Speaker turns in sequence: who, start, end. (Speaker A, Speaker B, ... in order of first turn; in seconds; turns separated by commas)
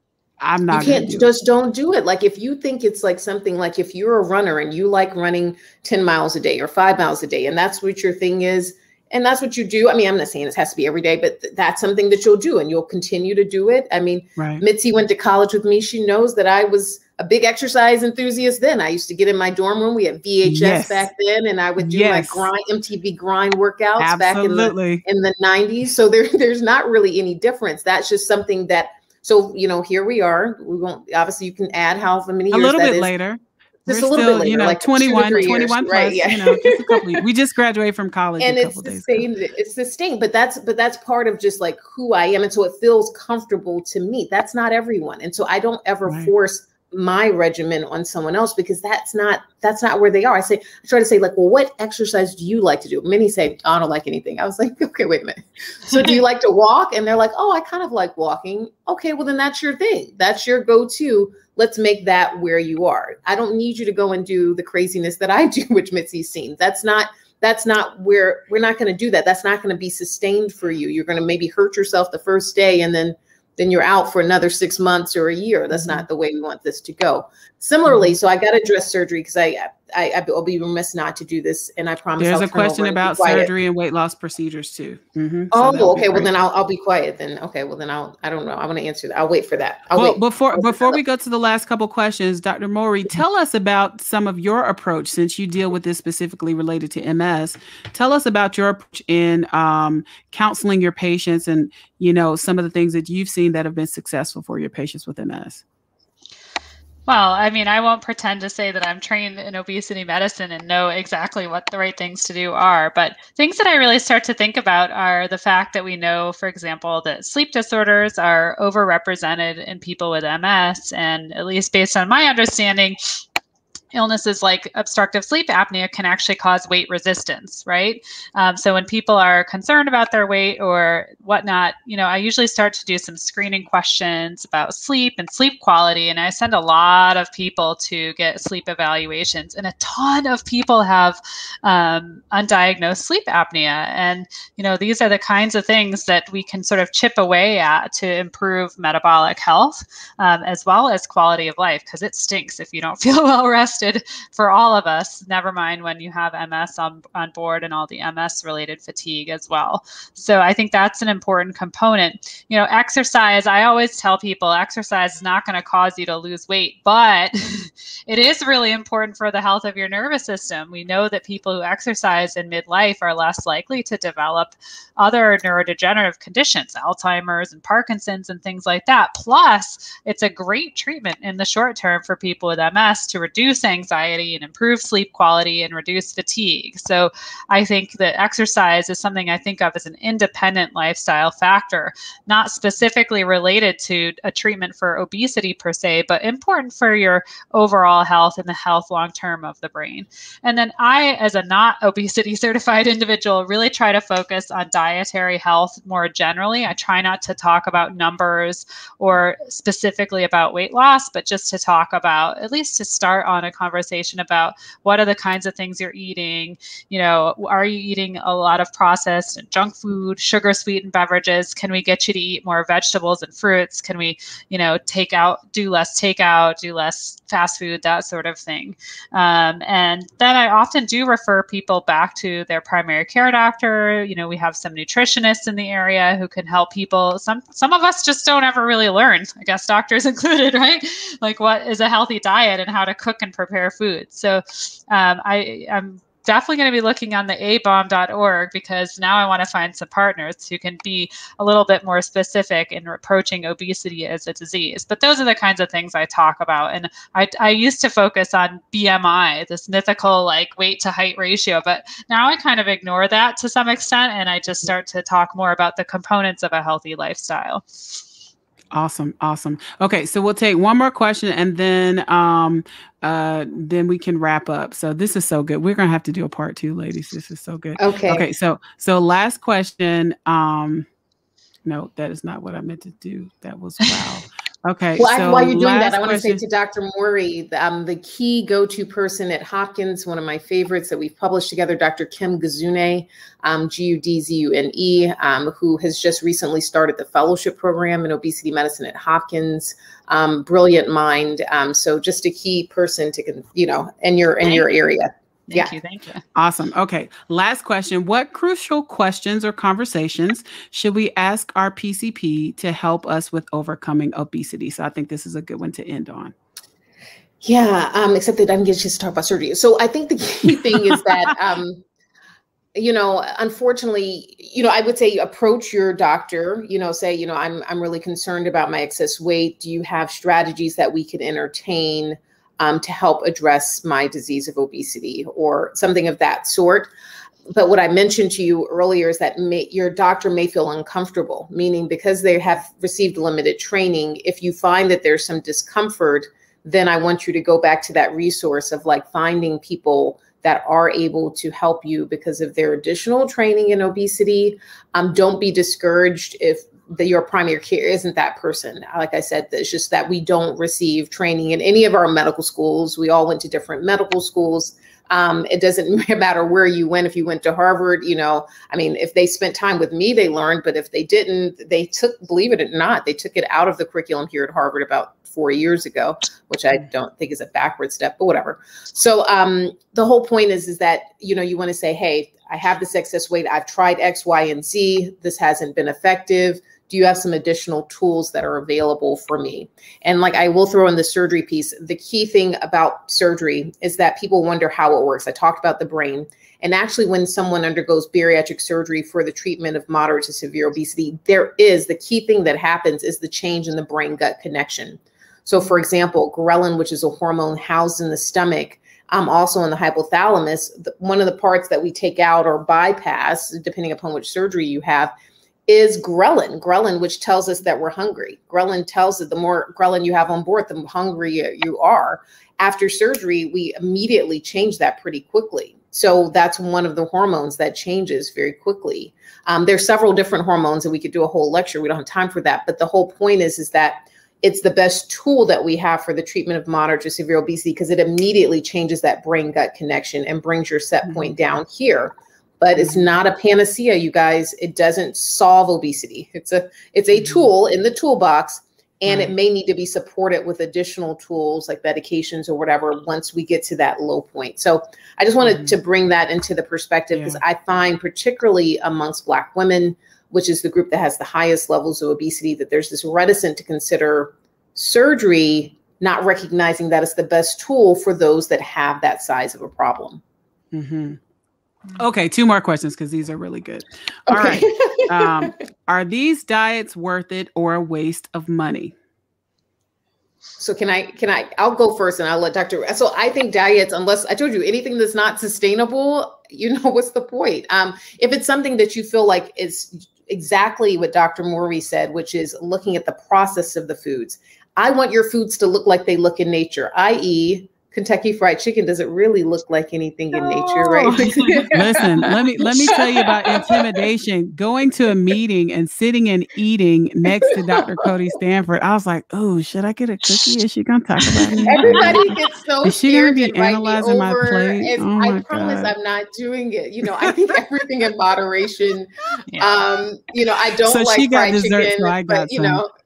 Speaker A: 0.4-1.3, Speaker B: 0.7-33.1, Speaker A: 14.4-14.6, Speaker A: 20.4-21.1, Speaker A: 21.8-22.5, Speaker A: 24.0-25.0, Speaker A: 32.5-39.3, Speaker B: 33.9-37.2, Speaker B: 38.4-83.5, Speaker A: 46.0-46.3, Speaker A: 75.7-76.0, Speaker A: 77.9-78.1, Speaker A: 82.2-86.3, Speaker B: 85.5-91.0, Speaker A: 90.0-105.6, Speaker C: 107.1-123.2, Speaker C: 123.9-268.0, Speaker A: 268.7-280.9, Speaker B: 277.8-278.2, Speaker A: 281.6-286.4, Speaker B: 285.0-305.7, Speaker C: 304.4-304.7, Speaker C: 305.5-306.2, Speaker A: 306.3-316.3, Speaker B: 317.4-321.8, Speaker A: 320.4-321.3, Speaker B: 322.7-336.9, Speaker B: 337.5-415.1, Speaker B: 415.7-470.2, Speaker A: 441.0-441.4, Speaker A: 442.8-443.1, Speaker A: 447.1-447.5, Speaker A: 449.1-449.3, Speaker A: 455.4-455.7, Speaker A: 457.1-457.4, Speaker A: 470.7-471.2, Speaker A: 472.0-478.9, Speaker B: 474.3-475.5, Speaker B: 480.6-503.8, Speaker C: 500.3-501.7, Speaker A: 501.7-515.9, Speaker C: 502.6-502.9, Speaker B: 507.5-508.0, Speaker C: 511.2-512.3, Speaker B: 511.7-522.9, Speaker A: 520.8-522.8